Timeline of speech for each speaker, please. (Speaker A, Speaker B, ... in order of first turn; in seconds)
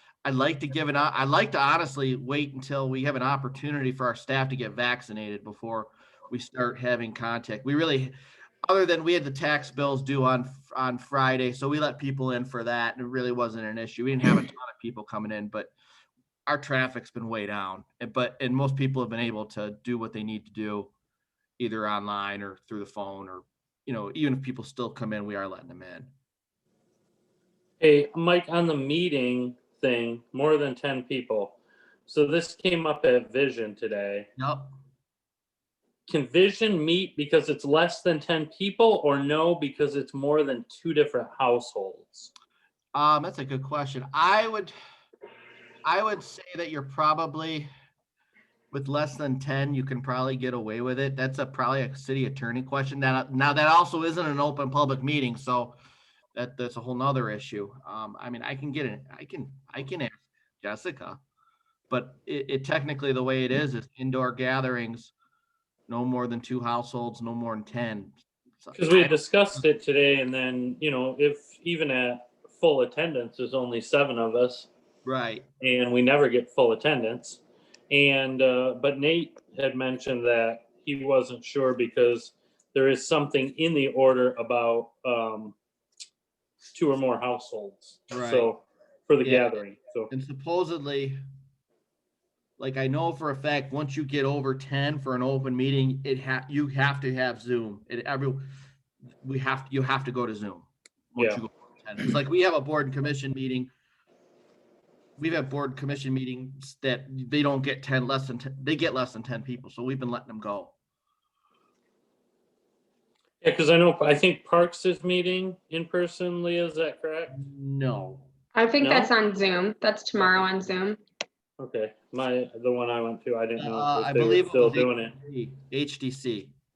Speaker A: 0.2-15.7, 16.5-20.9, 21.6-26.1, 34.4-34.7, 42.9-44.7, 45.8-47.7, 48.7-55.8, 56.4-61.2, 61.9-65.1, 65.9-69.6, 75.0-75.5, 88.1-88.5, 89.2-89.6, 90.1-91.2, 92.6-98.5, 99.2-103.7, 105.2-110.7, 117.3-118.3, 123.6-126.5
Speaker B: 27.8-34.3, 36.1-42.3, 68.8-74.7, 75.6-77.4, 77.9-85.6, 86.8-90.1, 113.4-117.4, 118.8-119.1, 121.6-125.1
Speaker C: 118.5-121.0